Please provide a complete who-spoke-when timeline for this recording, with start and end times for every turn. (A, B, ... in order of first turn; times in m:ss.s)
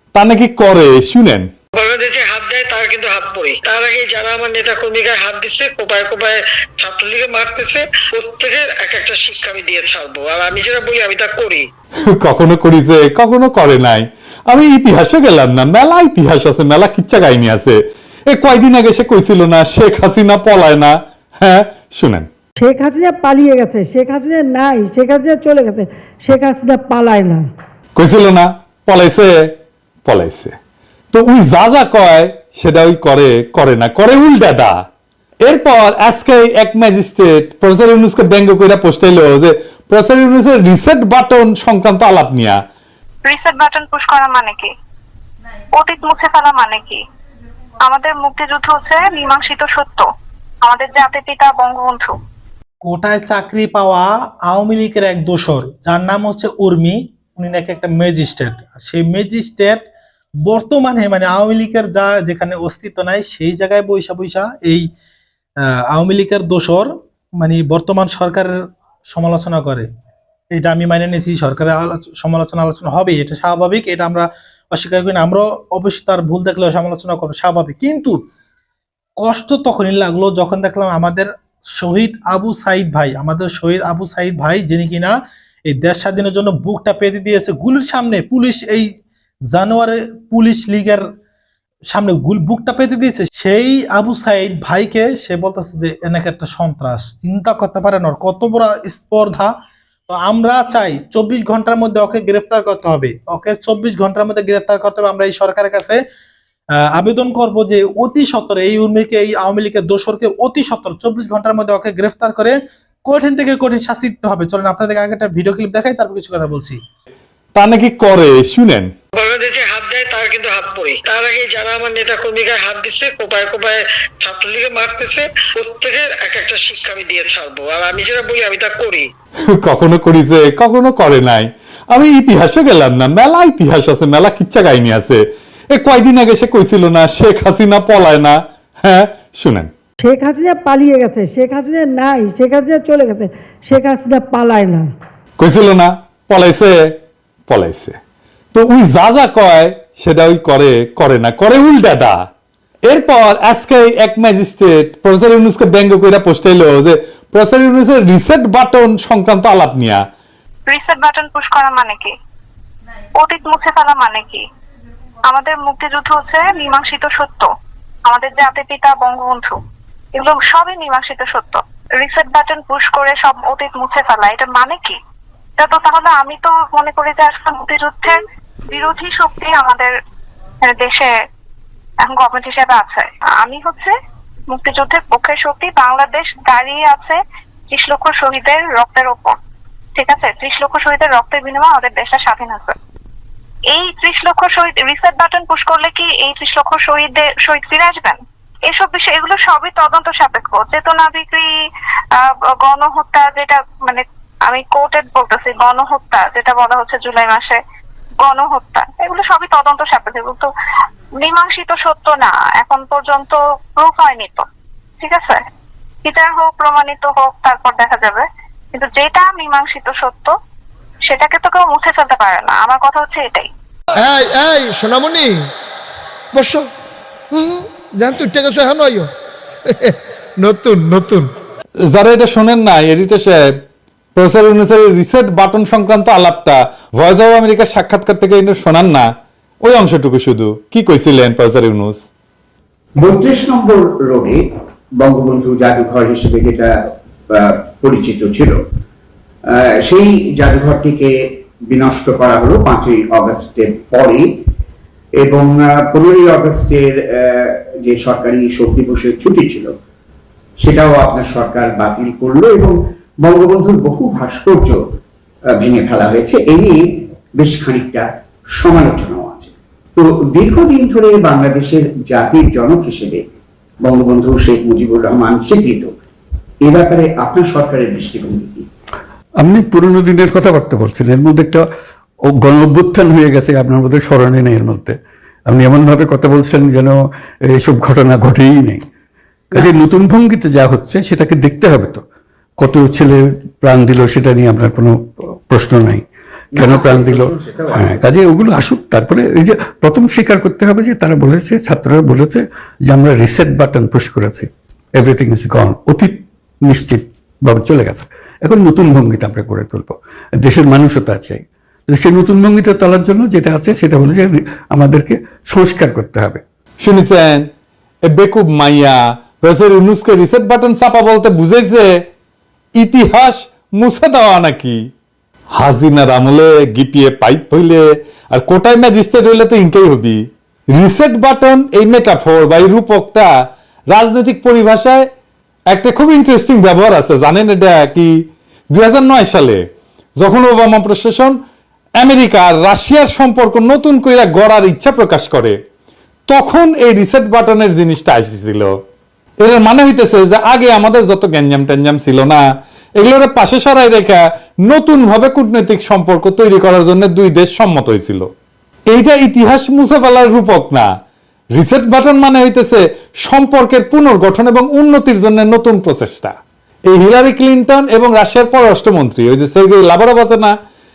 0:00.1-0:01.5 A
0:01.7-0:11.6 B
0:12.0-0:22.3 A
0:22.6-0:27.5 C
0:28.0-0:30.5 A
0:31.1-0:34.8 A
0:35.4-0:42.6 A
0:43.2-0:44.7 D
0:45.8-0:47.0 D
0:47.8-0:50.1 D
0:50.6-0:52.1 D
0:52.8-0:59.8 E
1:00.4-1:04.9 E
1:05.6-1:08.5 E
1:09.1-1:09.9 E
1:10.5-1:18.2 E
1:19.2-1:25.1 E
1:25.7-1:28.9 E
1:29.5-1:31.0 E
1:31.9-1:39.5 E
1:40.1-1:46.0 E
1:46.8-1:56.8 E
1:57.6-1:58.9 A
1:59.2-2:09.0 B
2:09.5-2:19.7 A
2:20.0-2:24.9 C
2:25.4-2:28.0 A
2:28.5-2:32.3 A
2:32.9-2:40.0 A
2:40.7-2:42.1 D
2:43.2-2:44.4 D
2:45.3-2:47.5 D
2:48.1-2:49.6 D
2:50.1-2:55.0 D
2:55.6-2:59.9 D
3:00.6-3:01.1 D
3:02.0-3:03.9 D
3:04.5-3:07.2 D
3:07.7-3:09.4 D
3:10.0-3:12.8 D
3:13.7-3:21.5 D
3:22.1-3:27.6 D
3:28.2-3:30.5 D
3:31.2-3:34.5 D
3:35.0-3:35.4 D
3:36.0-3:40.3 D
3:41.1-3:43.5 D
3:44.0-3:45.5 F
3:46.3-3:46.7 F
3:47.3-3:49.1 F
3:49.7-3:51.3 F
3:51.8-3:53.6 A
3:54.2-3:59.1 A
3:59.6-4:02.0 A
4:03.0-4:04.4 G
4:05.0-4:06.7 G
4:07.3-4:08.6 G
4:09.5-4:14.3 G
4:15.2-4:19.7 G
4:20.6-4:24.8 G
4:25.6-4:28.0 G
4:28.6-4:33.2 G
4:33.8-4:35.9 G
4:36.6-4:38.6 G
4:39.4-4:41.6 H
4:42.3-4:48.8 H
4:49.5-4:52.0 H
4:52.6-4:56.0 H
4:56.5-4:58.0 G
4:56.6-5:16.4 H
5:16.8-5:17.5 A
5:18.1-5:21.9 A
5:22.8-5:24.8 A
5:25.6-5:30.2 A
5:30.7-5:33.3 A
5:33.9-5:35.0 A
5:35.7-5:39.6 A
5:40.2-5:41.4 A
5:42.0-5:45.6 A
5:46.3-5:48.7 A
5:49.4-5:52.4 A
5:53.0-5:58.3 A
5:58.9-6:00.9 A
6:01.5-6:06.4 A
6:06.9-6:10.5 A